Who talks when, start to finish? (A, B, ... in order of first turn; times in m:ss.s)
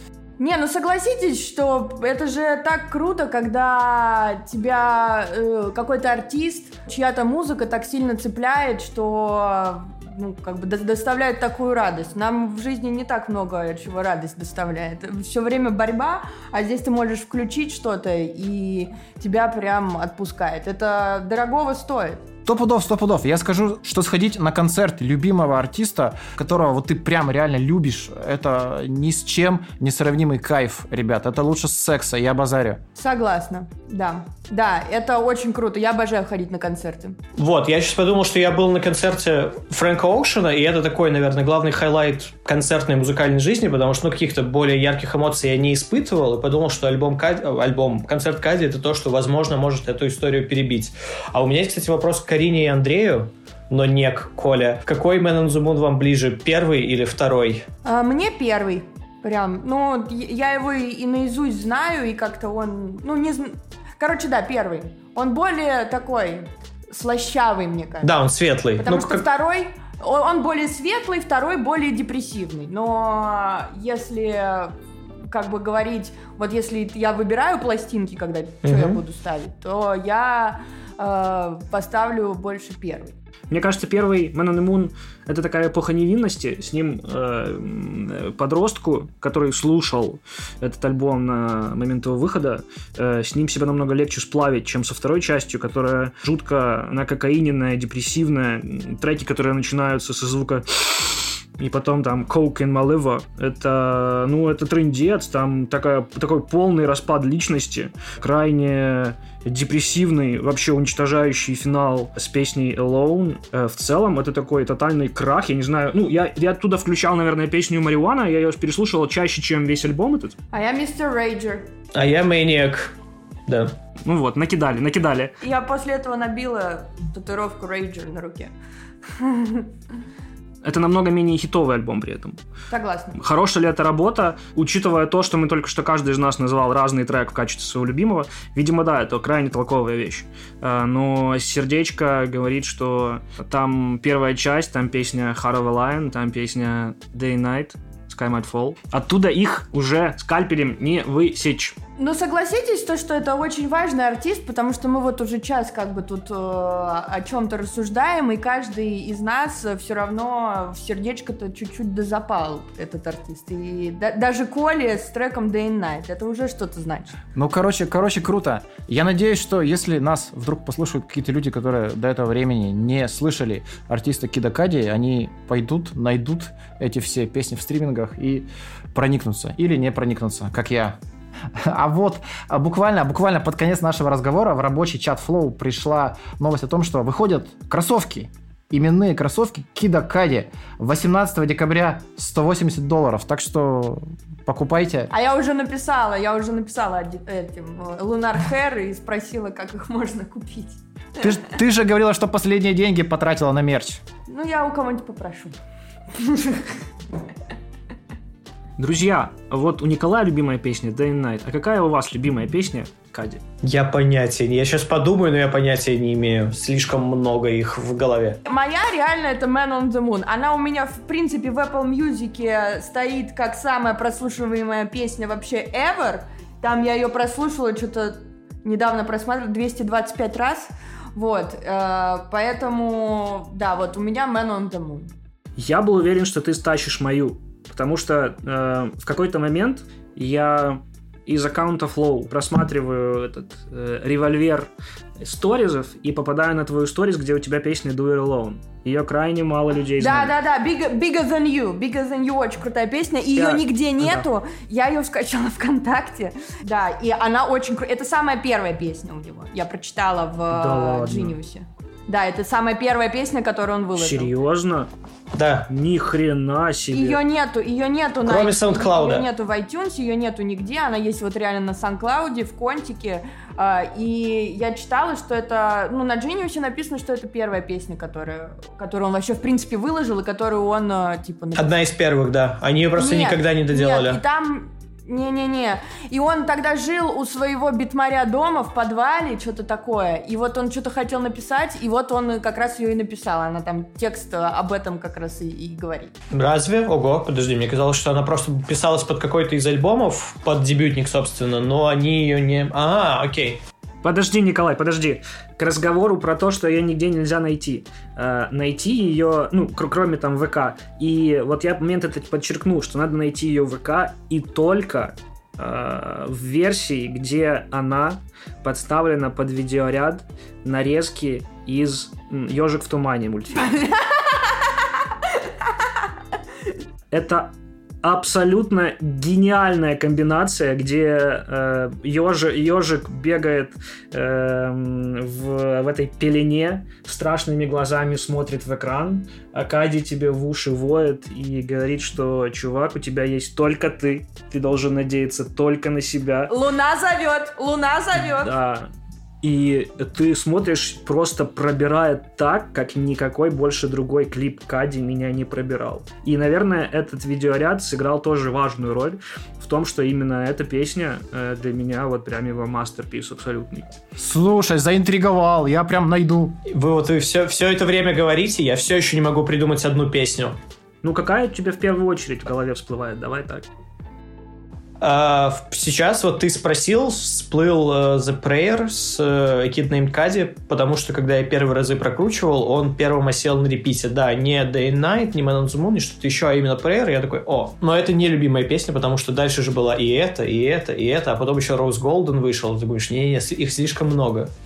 0:00.4-0:22.2 A
0:22.4-0:32.8 B
0:33.0-0:37.2 A
0:37.3-0:57.6 C
0:57.8-1:08.1 A
1:08.0-1:09.2 C
1:08.8-1:23.1 A
1:18.6-1:19.0 C
1:23.5-2:00.4 D
2:00.5-2:01.7 A
2:01.9-2:02.9 C
2:03.5-2:03.7 C
2:04.0-2:05.4 D
2:05.4-2:08.5 A
2:09.1-2:09.7 A
2:10.6-2:12.4 D
2:12.7-2:13.2 A
2:13.2-2:31.8 D
2:32.0-2:47.2 A
2:47.3-3:01.0 B
3:01.5-3:15.1 B
3:15.1-3:21.4 A
3:21.2-3:24.0 B
3:24.3-3:25.5 A
3:26.1-3:26.7 A
3:28.8-3:33.4 D
3:33.6-3:38.4 C
3:38.4-3:55.1 A
3:55.6-4:04.7 D
4:05.2-4:10.3 D
4:10.0-4:24.3 A
4:13.4-4:14.2 D
4:20.5-4:21.3 D
4:23.9-4:24.9 D
4:25.3-4:25.7 C
4:25.7-4:27.2 D
4:26.9-4:41.7 A
4:28.2-4:29.3 C
4:41.5-4:44.2 C
4:43.0-4:56.1 A
4:56.3-5:03.6 C
5:04.0-5:23.9 D
5:27.1-5:27.5 D
5:28.0-5:46.5 D
5:46.5-5:48.5 A
5:48.3-5:48.9 D
5:49.4-6:03.9 D
6:04.2-6:06.6 B
6:06.7-6:10.6 C
6:11.0-6:13.6 D
6:15.0-6:34.5 C